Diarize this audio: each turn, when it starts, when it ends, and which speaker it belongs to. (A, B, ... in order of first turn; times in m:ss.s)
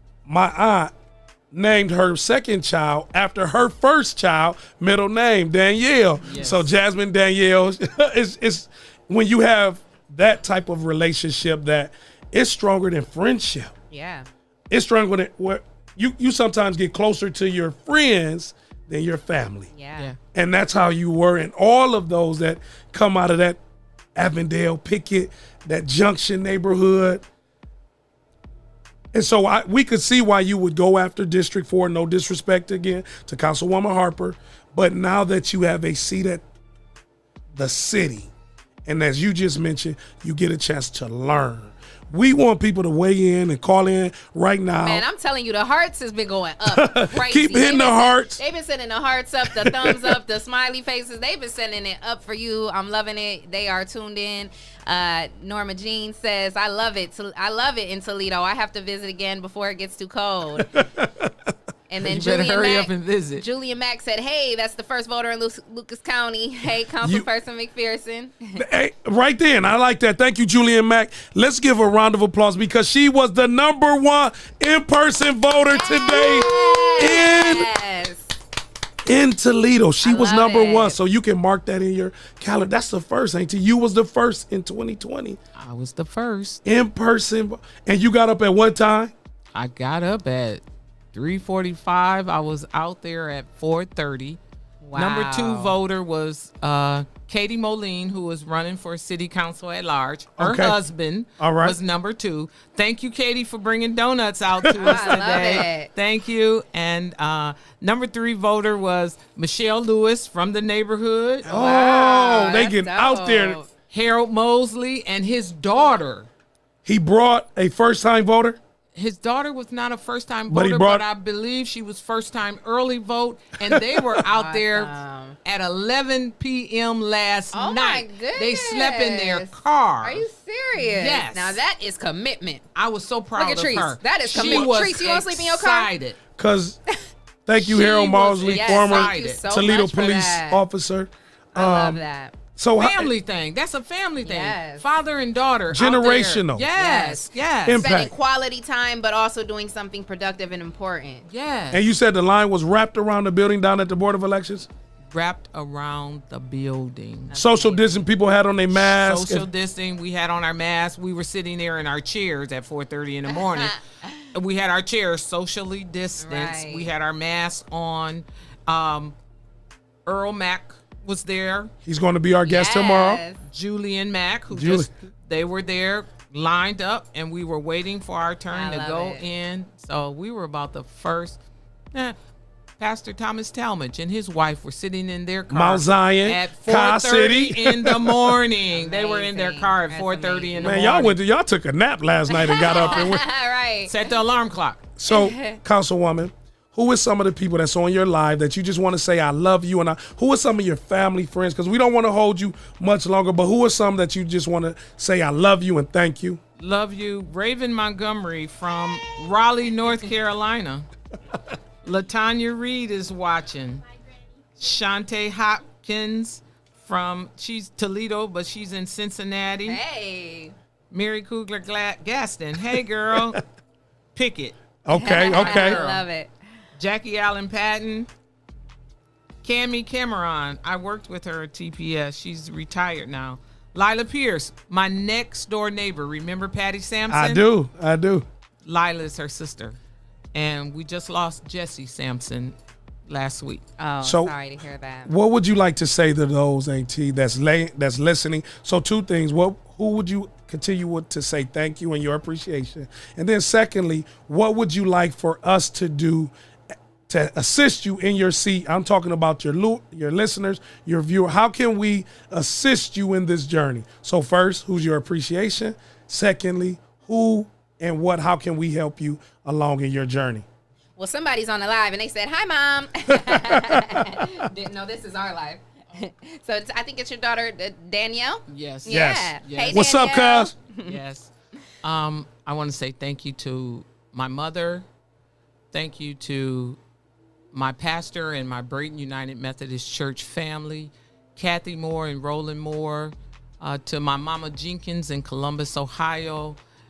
0:00.3-0:00.9 A
0:01.5-0:13.7 A
0:06.2-0:06.7 B
0:13.9-0:14.3 C
0:14.7-0:19.7 A
0:19.7-0:20.1 C
0:20.3-0:23.6 A
0:24.2-0:27.2 A
0:29.1-0:36.4 A
0:37.6-0:38.3 A
0:38.9-0:45.1 A
0:44.8-1:00.7 C
0:46.7-0:48.4 A
0:49.5-0:50.2 A
1:00.8-1:01.3 A
1:01.9-1:08.6 C
1:02.0-1:03.4 B
1:07.0-1:07.3 A
1:08.6-1:17.7 A
1:15.6-1:18.3 C
1:19.1-1:25.4 A
1:20.0-1:21.0 C
1:25.6-1:26.6 B
1:26.6-1:29.1 A
1:29.5-1:34.4 B
1:34.8-1:35.8 C
1:34.9-1:51.5 B
1:40.4-1:40.8 A
1:41.4-1:41.8 A
1:44.6-1:45.3 A
1:44.8-1:45.9 C
1:51.4-1:53.7 C
1:51.5-1:53.6 A
1:53.9-1:56.3 B
1:56.8-1:58.6 A
1:59.0-2:04.9 B
2:00.5-2:01.0 A
2:03.7-2:04.0 A
2:04.2-2:05.4 C
2:05.4-2:11.6 B
2:07.5-2:12.7 C
2:12.8-2:16.2 B
2:13.4-2:15.9 C
2:14.3-2:14.6 A
2:16.4-2:16.8 A
2:17.5-2:22.0 A
2:17.6-2:19.4 B
2:18.5-2:20.6 C
2:21.5-2:22.4 C
2:22.6-2:23.1 A
2:22.8-2:27.9 B
2:24.2-2:24.9 C
2:25.7-2:26.7 A
2:26.8-2:31.2 C
2:27.7-2:28.1 A
2:31.3-2:31.8 B
2:31.7-2:34.7 A
2:35.1-2:37.3 B
2:37.3-2:37.9 C
2:37.3-2:39.5 A
2:38.7-2:43.8 B
2:44.3-2:49.2 B
2:46.2-2:46.9 C
2:50.1-2:51.7 B
2:51.8-2:53.2 A
2:52.4-2:53.4 C
2:53.4-3:01.4 B
2:54.5-2:54.9 A
2:58.5-2:59.3 C
3:02.8-3:11.2 B
3:05.5-3:08.4 A
3:08.7-3:10.9 C
3:10.6-3:13.2 A
3:12.3-3:13.9 C
3:12.6-3:13.1 B
3:13.9-3:14.9 B
3:15.0-3:26.4 A
3:15.1-3:15.6 C
3:26.6-3:30.9 B
3:31.8-3:33.8 B
3:34.6-3:39.8 B
3:39.7-3:40.5 C
3:40.9-3:43.4 B
3:44.1-3:44.6 B
3:44.9-3:45.8 A
3:44.9-3:46.3 C
3:45.1-3:46.0 B
3:46.8-3:48.1 B
3:49.4-3:57.4 B
3:57.1-3:58.3 A
3:58.6-3:59.8 B
4:00.3-4:02.6 B
4:03.1-4:03.6 B
4:03.8-4:05.1 C
4:04.0-4:04.4 A
4:05.1-4:16.3 A
4:17.1-4:30.4 A
4:31.0-4:41.0 C
4:33.1-4:34.2 A
4:38.5-4:39.9 B
4:38.9-4:40.5 A
4:40.8-4:41.3 B
4:41.8-4:44.8 B
4:45.7-4:46.8 B
4:47.5-4:56.6 B